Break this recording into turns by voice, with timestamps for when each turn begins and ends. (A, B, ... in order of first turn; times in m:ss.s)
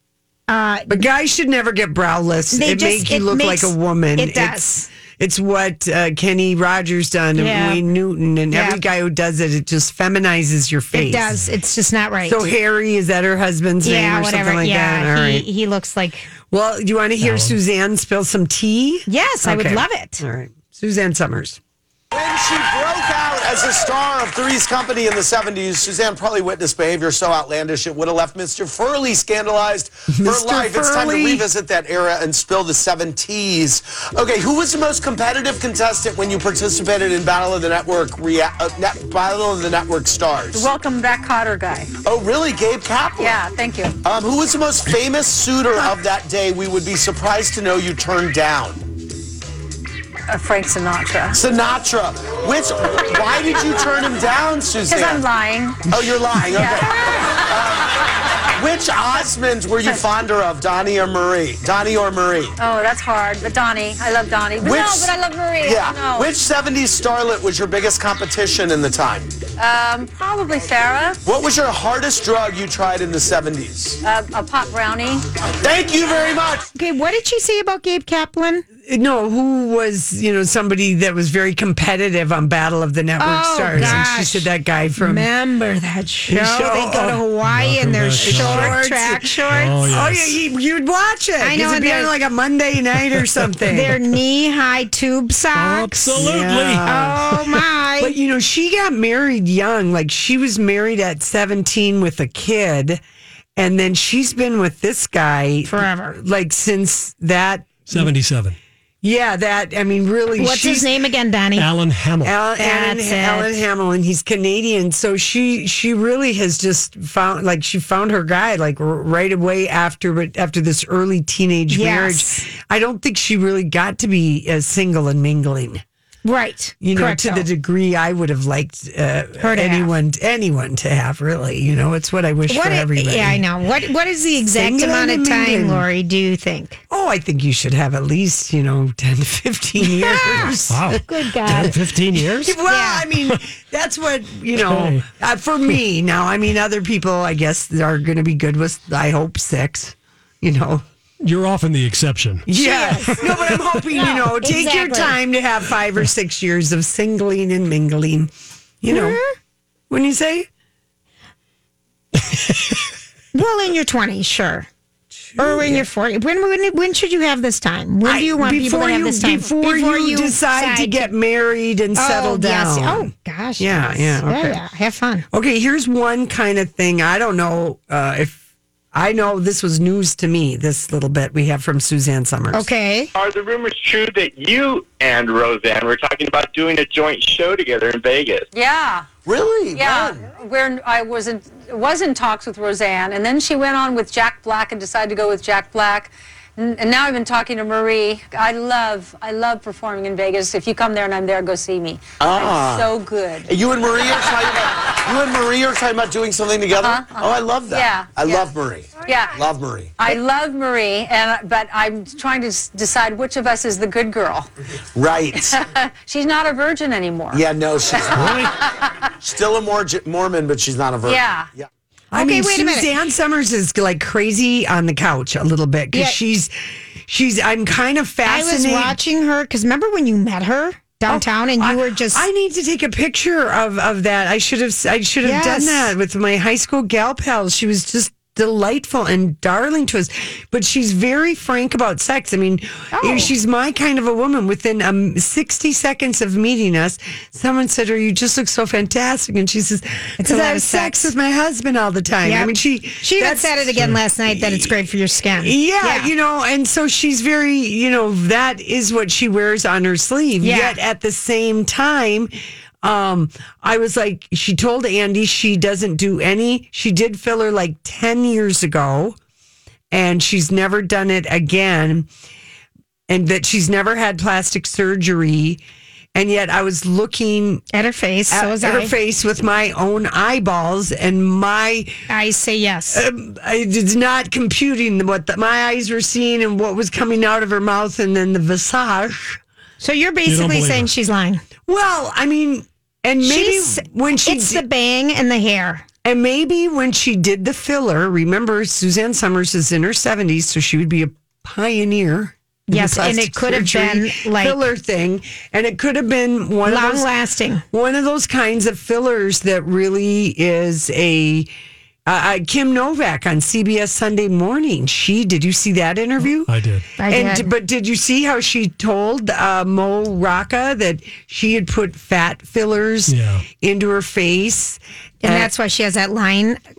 0:00.5-0:01.1 A
0:00.9-0:04.6 B
0:02.5-0:04.9 A
0:05.2-0:11.3 B
0:07.4-0:07.8 A
0:08.5-0:08.8 A
0:10.9-0:12.4 A
0:12.2-0:15.5 B
0:13.8-0:16.3 A
0:16.5-0:21.6 B
0:17.2-0:17.6 C
0:19.1-0:20.2 A
0:22.1-0:40.7 D
0:30.1-0:31.5 B
0:40.5-0:41.9 E
0:42.0-0:43.4 D
0:43.2-0:44.0 E
0:44.0-0:48.8 D
0:50.3-0:51.4 E
0:51.3-0:55.2 D
0:54.9-0:55.8 E
0:55.9-1:02.5 D
0:56.4-0:57.5 E
1:02.6-1:06.3 E
1:04.6-1:09.3 D
1:09.6-1:11.2 E
1:11.2-1:14.0 D
1:14.0-1:15.2 E
1:15.6-1:16.7 D
1:16.7-1:18.6 A
1:18.8-1:25.3 B
1:23.2-1:29.9 A
1:23.7-1:24.0 C
1:26.3-1:27.2 B
1:27.5-1:28.8 C
1:28.1-1:34.0 B
1:29.5-1:30.4 C
1:31.4-1:32.1 A
1:33.7-1:38.1 A
1:35.5-1:36.9 C
1:36.1-1:43.0 B
1:43.6-1:48.1 B
1:45.6-1:46.2 A
1:47.9-1:48.6 C
1:49.0-1:50.9 B
1:50.4-1:51.7 A
1:51.6-1:52.3 C
1:52.2-2:05.8 B
1:52.6-1:53.6 A
2:01.7-2:02.4 A
2:06.2-2:07.5 A
2:06.8-2:13.4 B
2:09.4-2:09.9 A
2:12.5-2:16.8 A
2:14.4-2:15.8 B
2:16.9-2:30.8 B
2:19.8-2:21.8 A
2:20.7-2:22.6 C
2:22.6-2:23.0 A
2:24.6-2:25.0 C
2:31.2-2:32.5 C
2:32.4-2:39.2 B
2:32.5-2:33.3 A
2:33.9-2:35.2 A
2:38.9-2:39.3 A
2:39.9-2:40.5 B
2:43.3-2:44.7 A
2:45.2-2:45.9 B
2:45.4-2:51.1 A
2:48.0-2:54.6 B
2:52.0-2:55.2 A
2:55.3-2:58.4 B
2:58.9-3:02.7 B
3:02.5-3:03.1 A
3:03.1-3:08.4 F
3:08.5-3:09.1 E
3:09.2-3:10.2 D
3:09.7-3:23.5 E
3:22.2-3:22.9 D
3:23.5-3:29.9 D
3:26.8-3:28.4 E
3:29.0-3:29.3 E
3:30.0-3:34.5 E
3:34.9-3:35.6 D
3:35.5-3:37.4 E
3:37.3-3:38.5 D
3:37.9-3:38.9 E
3:38.1-3:38.5 C
3:39.2-3:41.6 D
3:41.0-3:41.5 E
3:42.1-3:42.9 A
3:42.1-3:46.5 B
3:47.0-3:49.0 B
3:48.2-3:52.2 A
3:51.1-4:14.7 B
3:55.2-3:55.9 A
4:02.9-4:03.3 A
4:10.2-4:11.1 A
4:12.2-4:16.1 A
4:15.4-4:22.3 B
4:20.4-4:20.8 A
4:22.8-4:29.2 B
4:29.9-4:32.1 B
4:33.1-4:35.6 B
4:36.1-4:37.6 B
4:37.7-4:38.9 A
4:38.3-4:42.0 B
4:42.1-4:43.0 A
4:42.9-4:49.4 B
4:49.8-4:51.4 A
4:50.2-4:50.9 C
4:51.6-4:54.6 B
4:53.2-4:55.8 A
4:56.0-5:07.1 B
5:02.7-5:04.7 A
5:06.6-5:07.6 A
5:07.7-5:11.5 B
5:12.0-5:16.5 B
5:16.5-5:16.9 C
5:17.0-5:17.5 A
5:17.0-5:25.5 B
5:23.1-5:23.4 C
5:25.2-5:26.6 A